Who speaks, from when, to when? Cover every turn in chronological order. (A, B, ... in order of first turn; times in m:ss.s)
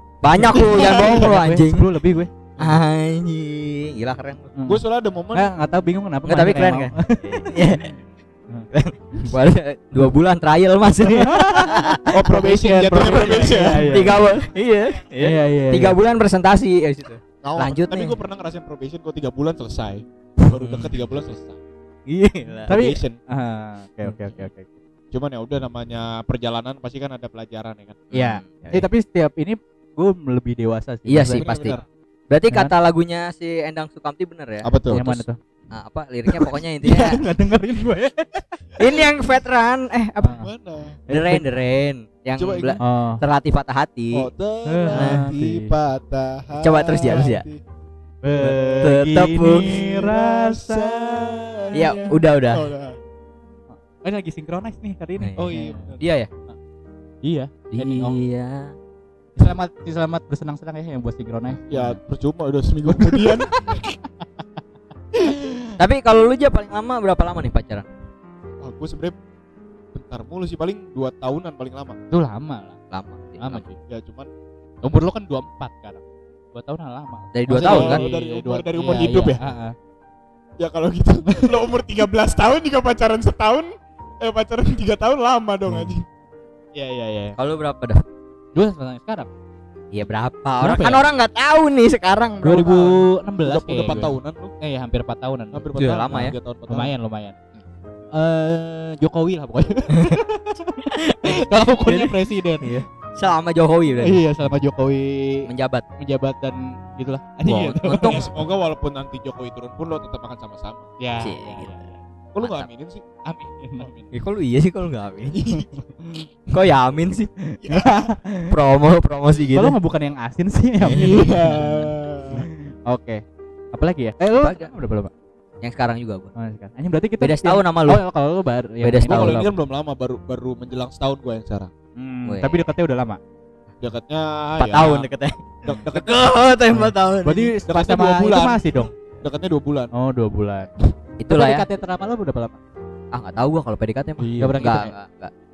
0:00.2-0:01.9 A
0:00.3-0:02.3 B
0:00.7-0:01.3 C
0:02.6-0:04.5 A
0:04.6-0:04.8 B
0:04.6-0:05.5 C
0:05.3-0:07.7 B
0:06.2-0:07.9 A
0:08.5-0:09.3 B
0:08.7-0:12.2 A
0:11.1-0:14.2 B
0:12.1-0:14.1 C
0:13.0-0:18.2 A
0:15.2-0:16.0 B
0:17.4-0:21.6 C
0:20.5-0:20.9 A
0:22.1-0:22.7 A
0:22.7-0:23.2 C
0:22.7-0:24.7 B
0:25.1-0:28.1 C
0:28.1-0:28.8 A
0:28.1-0:31.5 B
0:31.1-0:37.2 A
0:31.2-0:31.8 C
0:34.6-0:35.0 C
0:34.9-0:35.4 B
0:36.4-0:38.6 B
0:38.8-0:40.4 A
0:40.2-0:40.5 B
0:40.3-0:41.0 C
0:41.1-0:41.4 B
0:41.1-0:44.3 A
0:42.4-0:42.8 C
0:42.8-0:43.2 B
0:44.1-0:47.6 C
0:44.7-0:45.7 B
0:44.9-0:45.3 A
0:46.6-0:47.4 A
0:48.2-0:52.1 B
0:48.4-0:49.8 A
0:49.5-0:53.0 C
0:51.7-0:52.7 A
0:53.7-0:55.9 B
0:55.2-0:55.5 A
0:55.4-0:56.0 C
0:56.0-0:56.3 A
0:57.2-0:58.2 B
0:57.7-0:58.7 A
0:59.4-1:02.0 B
1:01.7-1:03.7 C
1:02.9-1:03.8 B
1:05.2-1:05.8 B
1:05.8-1:07.8 A
1:08.6-1:09.2 C
1:09.9-1:12.0 C
1:12.1-1:12.8 B
1:12.9-1:13.6 A
1:13.4-1:13.8 B
1:13.9-1:14.3 C
1:14.8-1:16.0 B
1:16.5-1:19.7 B
1:17.3-1:18.0 A
1:17.6-1:19.4 C
1:20.6-1:26.0 C
1:25.7-1:25.9 B
1:26.7-1:27.4 B
1:27.4-1:28.0 A
1:28.5-1:29.3 B
1:29.9-1:33.0 A
1:30.6-1:31.0 B
1:32.4-1:35.7 B
1:33.4-1:34.5 C
1:35.5-1:36.9 C
1:35.8-1:36.4 A
1:36.7-1:37.3 B
1:38.1-1:42.8 B
1:39.9-1:40.2 A
1:40.8-1:44.2 A
1:44.0-1:45.5 B
1:45.5-1:45.8 A
1:46.0-1:48.3 B
1:47.4-1:48.3 A
1:47.9-1:50.9 C
1:51.0-1:52.0 B
1:51.2-1:51.7 A
1:52.3-1:53.0 C
1:52.4-1:52.7 A
1:53.2-1:54.1 B
1:54.1-1:55.4 A
1:55.3-1:55.7 C
1:55.5-1:56.2 B
1:56.5-1:57.3 A
1:57.5-1:58.5 B
1:57.6-1:58.0 C
1:58.5-1:59.8 A
1:59.5-2:01.8 B
2:00.8-2:01.7 A
2:00.9-2:02.5 C
2:02.3-2:05.1 B
2:04.4-2:04.7 A
2:05.6-2:06.3 A
2:06.4-2:09.5 B
2:07.2-2:08.0 A
2:08.8-2:09.4 A
2:09.0-2:11.7 C
2:12.0-2:13.2 B
2:12.2-2:12.7 A
2:13.8-2:15.0 C
2:14.6-2:17.5 A
2:15.6-2:16.4 C
2:16.7-2:18.9 B
2:17.7-2:19.9 C
2:19.9-2:20.7 B
2:21.2-2:21.7 A
2:21.3-2:22.6 B
2:23.1-2:25.3 A
2:24.2-2:24.7 C
2:24.4-2:24.9 B